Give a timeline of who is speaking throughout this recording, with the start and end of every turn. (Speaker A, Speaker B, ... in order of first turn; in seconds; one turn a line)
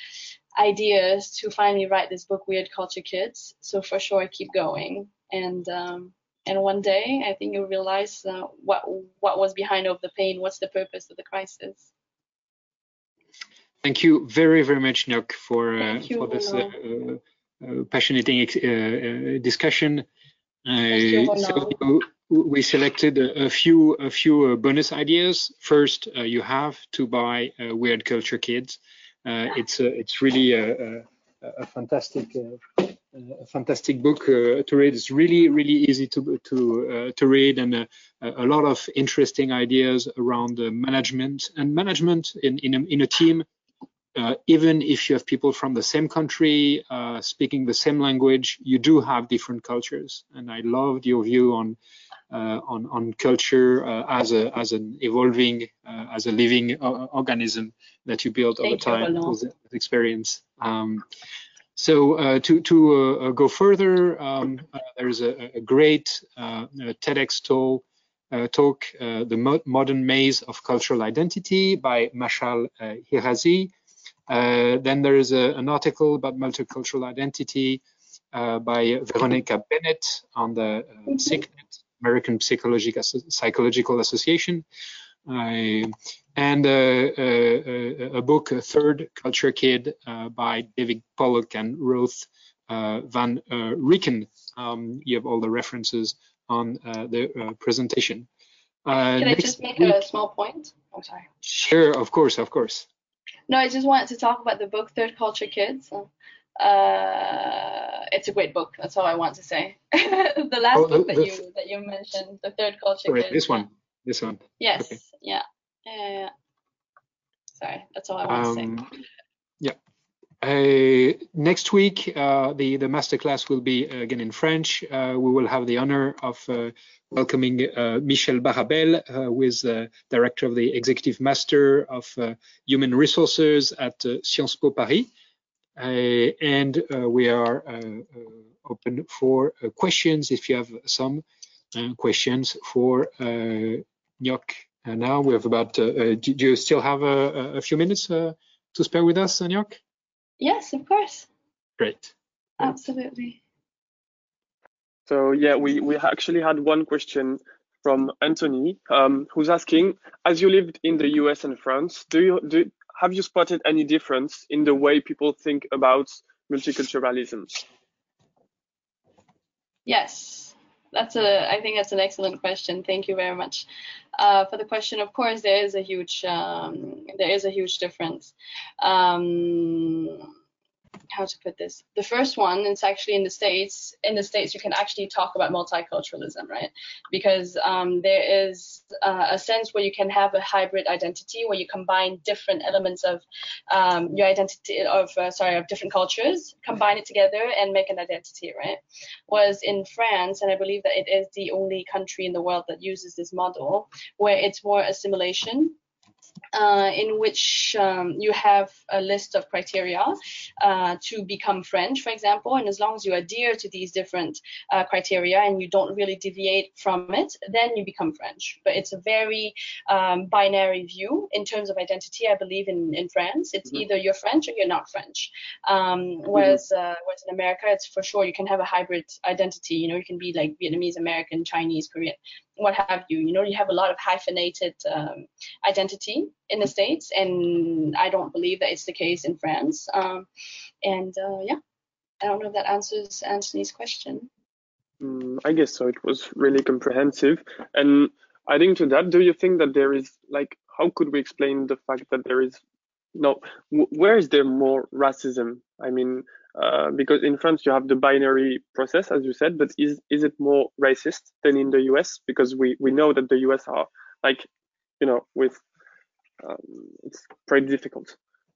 Speaker A: 0.6-11.9
Speaker B: 13.8-20.1
Speaker A: 15.8-16.7
Speaker B: 20.7-43.5
Speaker A: 20.9-21.8
Speaker B: 44.1-51.8
Speaker B: 52.3-61.0
Speaker A: 58.6-59.4
Speaker B: 61.8-73.7
Speaker B: 74.3-84.7
Speaker B: 85.3-98.3
Speaker B: 98.9-100.0
Speaker A: 99.2-101.3
Speaker B: 101.4-102.9
Speaker A: 103.5-113.7
Speaker B: 110.7-111.4
Speaker B: 113.1-115.0
Speaker A: 114.6-116.3
Speaker A: 117.6-118.8
Speaker B: 118.3-118.9
Speaker B: 120.4-135.1
Speaker B: 135.8-149.8
Speaker A: 150.4-151.3
Speaker B: 151.8-152.1
Speaker A: 152.6-153.4
Speaker C: 155.1-167.6
Speaker A: 169.9-173.7
Speaker A: 174.2-180.2
Speaker A: 181.1-205.8
Speaker A: 206.5-240.3
Speaker A: 240.8-241.6
Speaker A: 242.2-244.3
Speaker C: 245.0-252.6
Speaker C: 253.2-264.5
Speaker C: 265.0-265.6
Speaker C: 266.4-268.2